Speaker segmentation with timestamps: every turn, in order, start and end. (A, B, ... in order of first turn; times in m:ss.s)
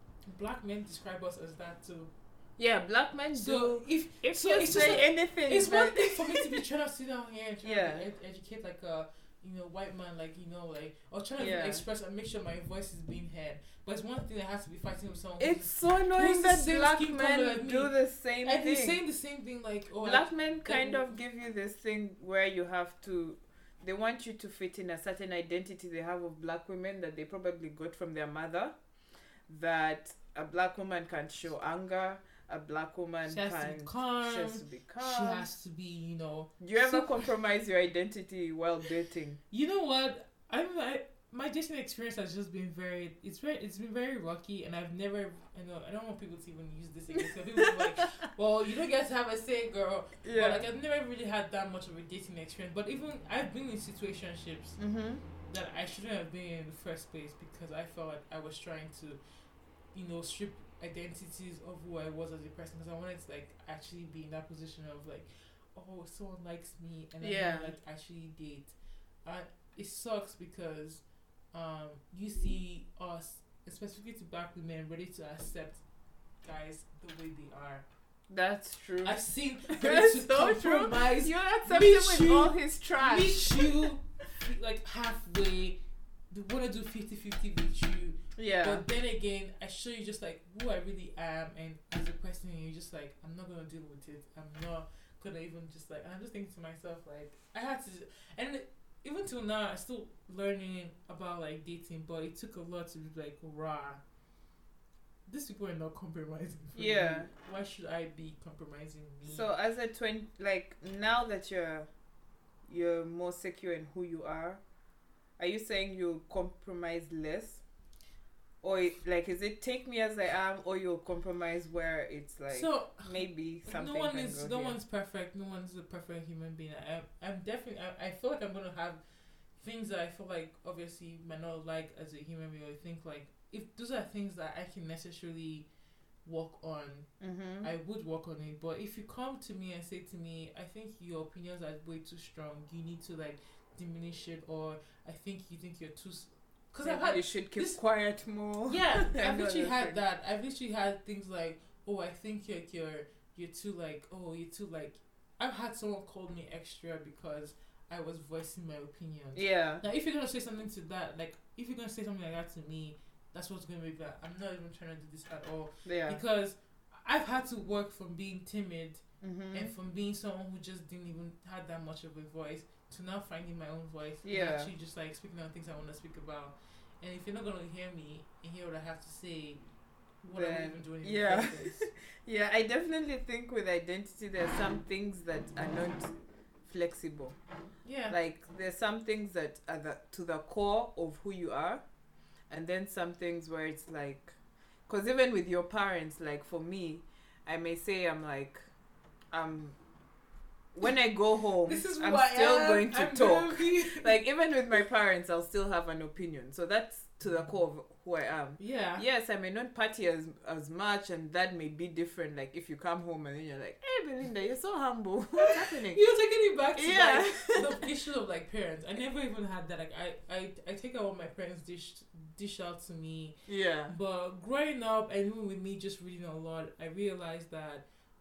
0:00.3-0:02.1 A
0:02.6-0:06.6 B
0:03.3-0:21.1 A
0:07.6-0:08.0 B
0:11.4-0:11.8 B
0:15.4-0:19.0 B
0:20.0-0:28.7 B
0:29.5-0:35.4 B
0:33.2-0:37.3 A
0:36.6-0:39.4 B
0:39.5-0:54.8 A
0:47.1-0:48.2 B
0:50.2-0:50.6 B
0:54.8-0:55.2 B
0:55.4-0:59.2 A
0:59.9-1:15.8 A
1:07.2-1:07.7 B
1:16.4-1:17.8 A
1:18.3-1:23.9 B
1:19.0-1:25.8 A
1:26.3-1:44.0 A
1:28.4-1:28.8 B
1:45.3-1:49.5 A
1:46.7-1:47.3 B
1:49.2-1:51.9 B
1:52.7-1:54.6 B
1:55.4-1:57.6 B
1:58.6-2:04.7 B
2:02.5-2:09.0 A
2:09.6-2:15.7 A
2:16.2-2:17.1 A
2:17.2-2:17.7 B
2:17.6-2:27.8 A
2:26.8-2:30.0 B
2:28.7-2:59.6 A
2:39.4-2:39.8 B
2:45.8-2:46.2 B
2:49.2-2:49.7 B
2:54.2-2:54.7 B
3:00.2-3:01.9 A
3:00.3-3:06.1 B
3:06.6-3:07.4 B
3:07.8-3:08.2 A
3:08.1-3:11.8 B
3:12.5-3:14.4 B
3:14.9-3:18.7 B
3:19.3-3:19.8 B
3:20.7-3:36.0 B
3:21.6-3:24.2 A
3:28.6-3:29.0 A
3:35.4-3:43.4 A
3:36.7-3:37.8 B
3:43.5-3:44.0 B
3:43.9-3:47.8 A